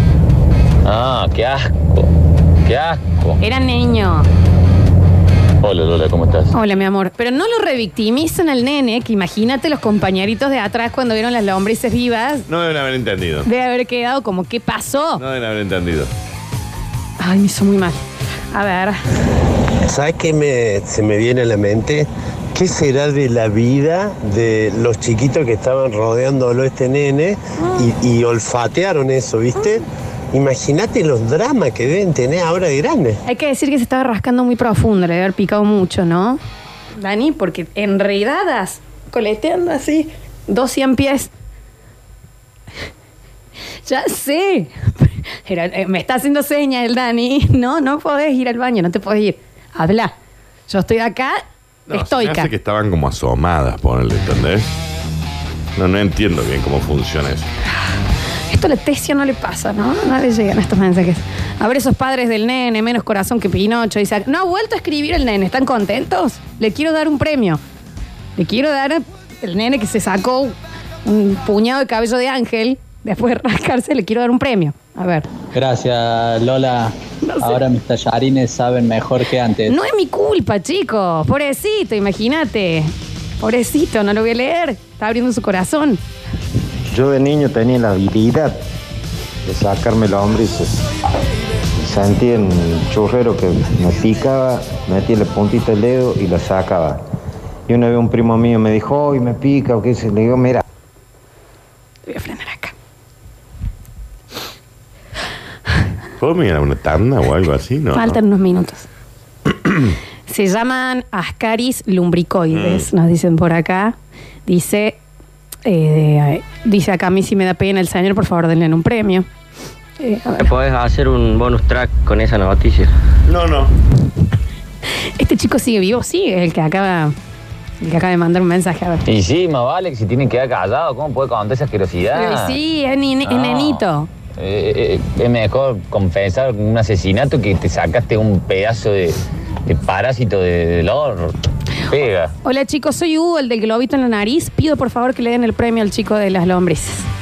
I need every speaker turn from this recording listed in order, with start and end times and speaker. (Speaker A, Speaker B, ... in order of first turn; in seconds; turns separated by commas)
Speaker A: 0.8-2.1, Speaker A: 2.6-3.4, Speaker B: 3.4-4.2, Speaker A: 5.6-6.5, Speaker B: 6.5-12.4, Speaker C: 12.5-13.5, Speaker B: 13.4-15.2, Speaker C: 15.2-16.1, Speaker B: 17.2-18.0, Speaker B: 18.5-19.0, Speaker D: 19.8-33.2, Speaker B: 33.2-36.4, Speaker B: 37.0-41.3, Speaker B: 43.9-50.1, Speaker B: 50.7-52.5, Speaker C: 51.9-54.7, Speaker C: 55.8-57.5, Speaker B: 58.5-67.6, Speaker B: 68.4-75.2, Speaker E: 75.5-79.8, Speaker B: 77.2-77.6, Speaker B: 79.7-86.0, Speaker F: 92.2-93.4, Speaker F: 94.3-96.7, Speaker F: 97.8-100.5, Speaker B: 102.1-102.7, Speaker C: 106.2-108.2, Speaker B: 107.9-108.8, Speaker B: 110.3-113.9, Speaker C: 112.5-112.8, Speaker B: 114.5-115.0, Speaker B: 115.7-119.2, Speaker B: 120.0-120.5, Speaker G: 120.4-122.9, Speaker C: 123.3-123.7, Speaker B: 125.2-127.1, Speaker B: 127.8-129.0, Speaker A: 129.1-132.6, Speaker B: 132.1-134.1, Speaker A: 133.3-133.8, Speaker A: 134.4-141.3, Speaker A: 141.9-142.3, Speaker B: 142.4-147.1